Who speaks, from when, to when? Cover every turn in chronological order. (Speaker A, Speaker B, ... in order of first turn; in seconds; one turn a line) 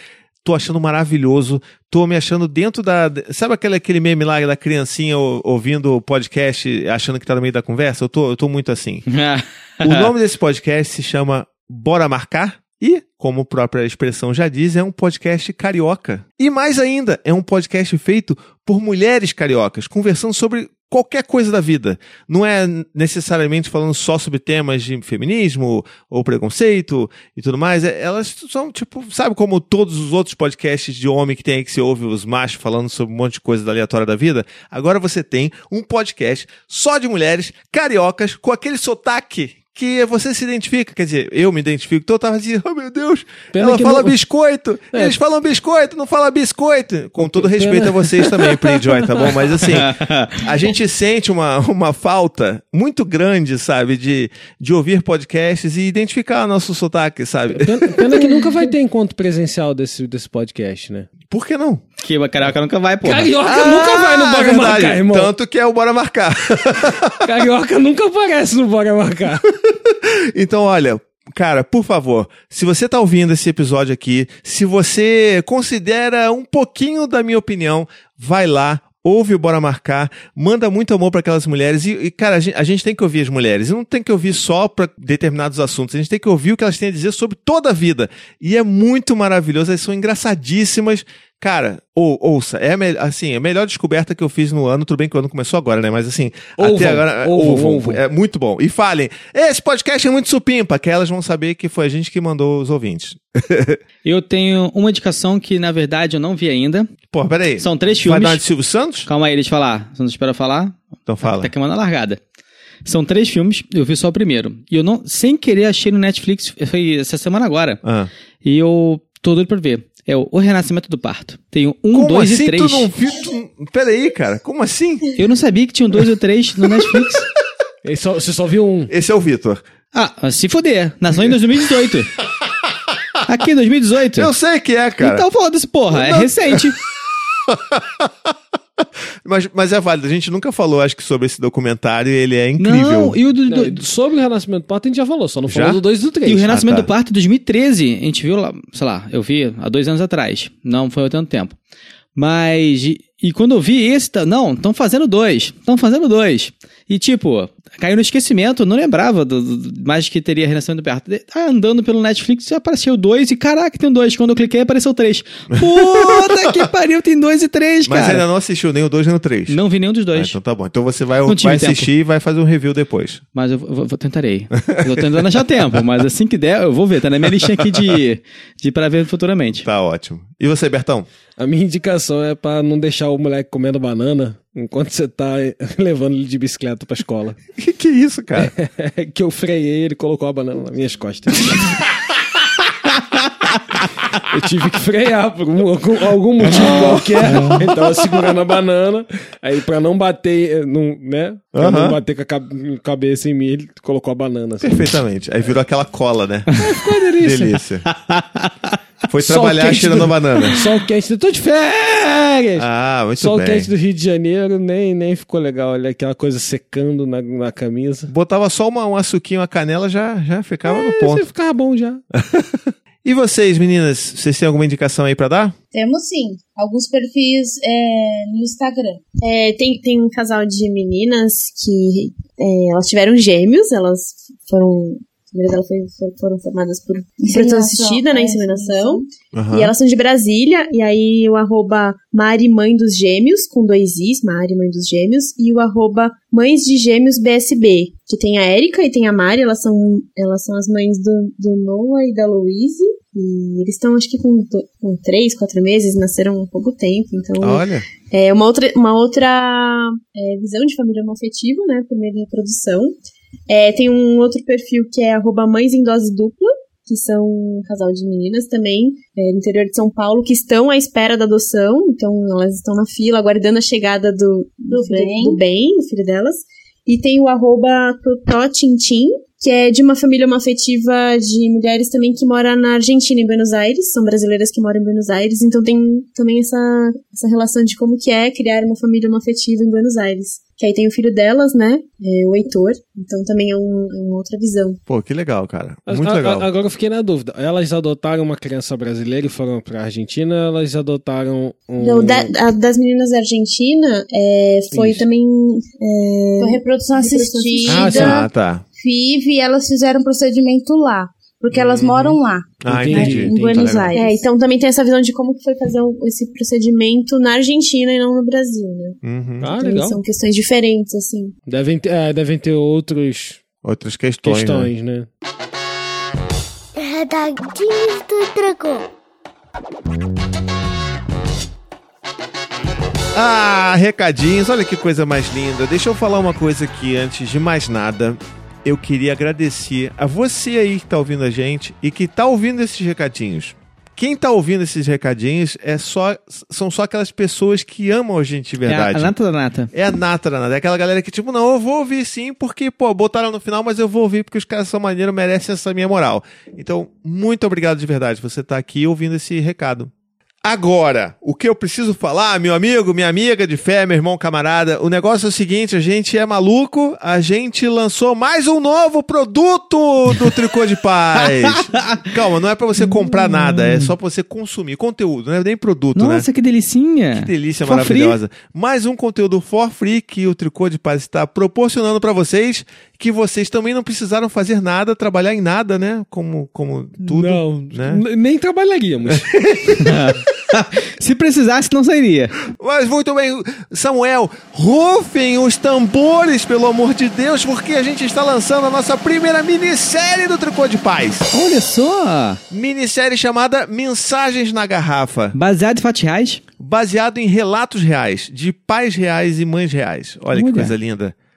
Speaker A: 0.4-9.1
Speaker B: 9.1-10.1
Speaker A: 9.8-58.0
Speaker C: 43.5-44.2
Speaker C: 47.2-49.2
Speaker B: 49.7-50.4
Speaker C: 57.6-61.1
Speaker A: 61.3-61.8
Speaker B: 62.0-63.3
Speaker C: 63.0-65.3
Speaker A: 63.4-67.1
Speaker C: 67.2-69.4
Speaker A: 69.7-103.8
Speaker C: 96.6-98.0
Speaker B: 104.0-106.9
Speaker A: 107.1-109.1
Speaker B: 107.6-108.4
Speaker B: 109.0-112.2
Speaker A: 111.1-111.5
Speaker B: 112.8-117.8
Speaker A: 117.8-118.1
Speaker B: 118.4-122.9
Speaker A: 121.9-125.0
Speaker B: 125.2-127.3
Speaker C: 127.8-128.9
Speaker A: 128.9-129.6
Speaker B: 129.9-132.1
Speaker B: 133.2-134.3
Speaker A: 134.2-135.2
Speaker B: 135.0-136.8
Speaker A: 135.9-136.5
Speaker A: 137.5-138.1
Speaker A: 139.2-143.2
Speaker B: 142.6-143.8
Speaker C: 143.4-146.5
Speaker A: 145.5-145.8
Speaker B: 146.2-151.6
Speaker A: 146.5-146.9
Speaker B: 152.2-168.2
Speaker A: 165.6-166.4
Speaker A: 167.8-169.6
Speaker B: 169.5-170.3
Speaker A: 170.1-173.2
Speaker B: 171.2-171.9
Speaker B: 173.3-179.7
Speaker A: 174.6-174.9
Speaker A: 179.6-181.1
Speaker C: 181.4-187.4
Speaker A: 187.6-188.5
Speaker C: 188.4-191.8
Speaker C: 194.2-204.9
Speaker A: 196.8-197.5
Speaker A: 201.5-202.0
Speaker A: 204.6-206.6
Speaker C: 206.6-207.6
Speaker A: 207.2-207.9
Speaker B: 207.9-208.7
Speaker A: 209.1-210.6
Speaker C: 209.2-218.1
Speaker A: 212.6-213.7
Speaker A: 218.1-221.3
Speaker C: 220.6-222.0
Speaker A: 222.1-225.5
Speaker D: 225.7-229.0
Speaker E: 229.2-262.9
Speaker D: 237.2-239.1
Speaker A: 239.3-239.7
Speaker A: 257.4-257.9
Speaker E: 263.5-294.8
Speaker D: 274.7-275.4
Speaker A: 294.9-296.5
Speaker C: 295.9-302.3
Speaker E: 301.8-308.2
Speaker C: 304.7-305.0
Speaker D: 306.4-314.2
Speaker A: 307.7-308.6
Speaker C: 307.9-308.1
Speaker A: 311.5-313.9
Speaker C: 312.7-313.8
Speaker E: 313.9-319.0
Speaker A: 319.0-319.5
Speaker C: 319.4-320.0
Speaker E: 319.6-321.3
Speaker C: 321.4-323.4
Speaker A: 323.6-324.7
Speaker C: 324.2-325.1
Speaker F: 326.8-328.9
Speaker A: 333.1-349.1
Speaker B: 348.6-349.7
Speaker A: 349.7-359.9
Speaker A: 360.4-376.2
Speaker B: 372.8-373.8
Speaker B: 375.9-378.2
Speaker A: 377.1-388.0
Speaker C: 387.0-389.3
Speaker A: 389.1-390.0
Speaker B: 389.8-392.3
Speaker A: 392.5-401.3
Speaker B: 401.3-402.4
Speaker A: 402.5-405.4
Speaker B: 405.3-406.4
Speaker A: 406.6-411.1
Speaker B: 410.3-410.7